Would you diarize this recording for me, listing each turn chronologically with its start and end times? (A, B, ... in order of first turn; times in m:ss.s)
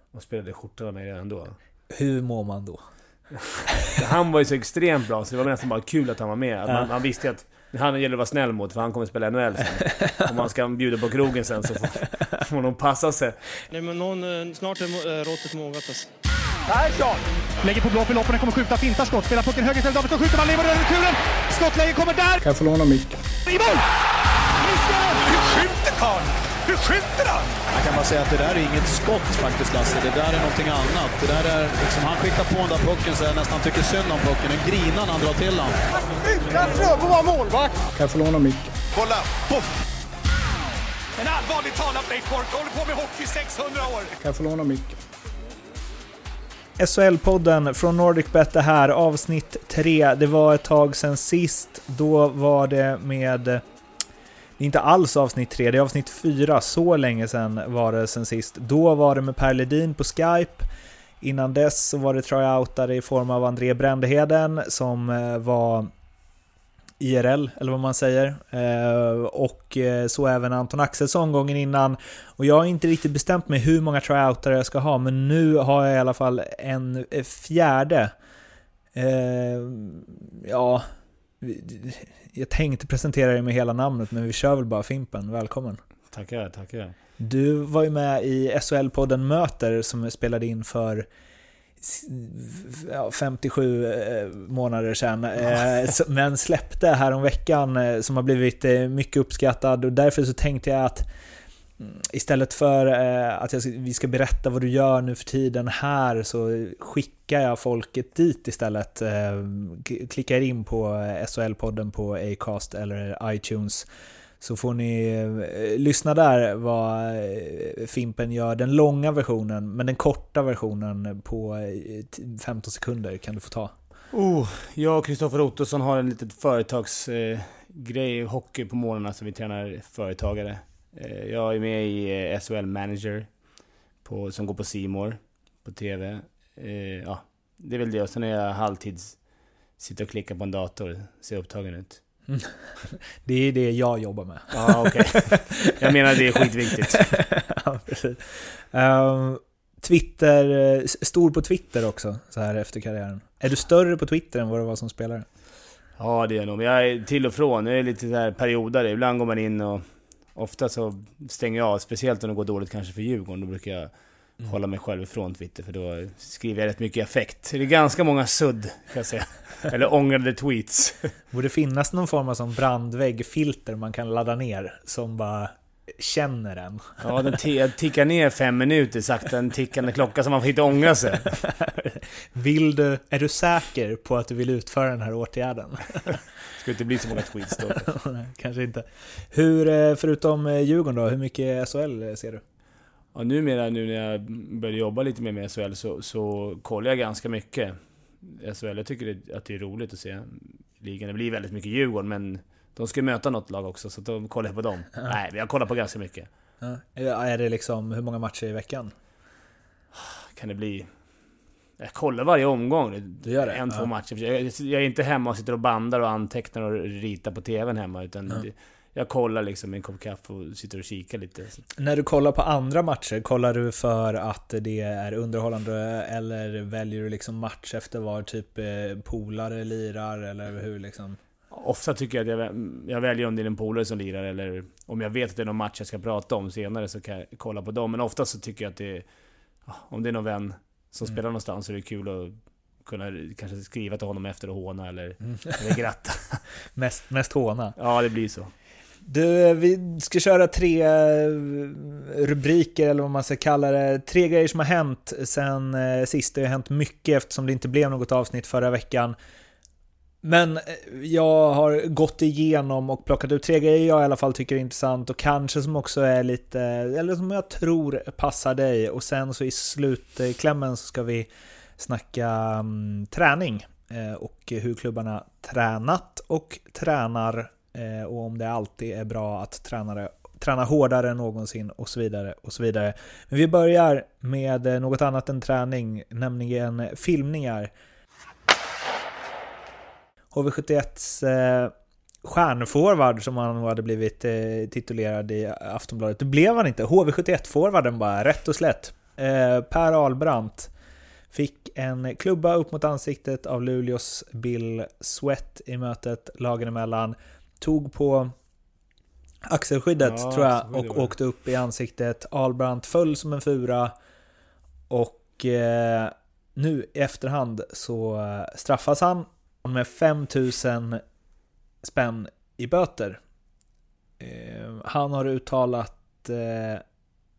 0:00.1-0:01.6 A
0:01.9-0:02.8 B
0:03.3-0:13.4 A
0:13.7-0:16.1 C
0:16.7-0:22.4 D
0:22.4-0:23.2 E
0:23.4-0:23.8 D
0:24.6-0:27.6 D
0:27.7-0:35.8 F
0:36.2-0:37.8 D
0:37.9-0:38.7 E
0:38.9-0:39.7 D
0:41.2-0:44.2 D
0:44.2-0:44.9 E
0:46.8-0:53.6 B
0:54.6-1:00.6 B
1:01.2-1:05.9 B
1:07.0-1:18.1 B
1:18.9-1:20.9 B
1:21.4-1:25.8 B
1:26.1-1:26.9 A
1:27.2-1:31.1 B
1:31.8-1:41.1 B
1:41.8-1:53.9 B
1:54.4-2:03.7 B
2:04.1-2:13.3 A
2:14.0-2:19.2 A
2:19.8-2:22.0 A
2:22.3-2:35.3 B
2:24.5-2:27.1 A
2:36.0-2:43.9 A
2:44.4-2:51.1 A
2:51.3-2:57.2 B
2:57.0-3:01.3 A
3:01.3-3:06.2 B
3:06.6-3:07.9 A
3:07.8-3:12.4 B
3:13.1-3:26.3 A
3:26.6-3:28.9 B
3:29.9-3:30.9 A
3:31.8-3:41.6 A
3:33.2-3:33.9 B
3:41.8-3:51.2 B
3:51.5-3:59.0 A
3:59.6-4:06.4 A
4:06.7-4:07.8 B
4:07.8-4:08.5 A
4:09.0-4:19.2 B
4:20.2-4:47.7 B
4:50.3-5:00.7 B
5:01.3-5:08.3 B
5:09.4-5:13.9 B
5:10.0-5:11.1 A
5:14.9-5:21.0 B
5:21.8-5:23.2 B
5:24.2-5:26.8 B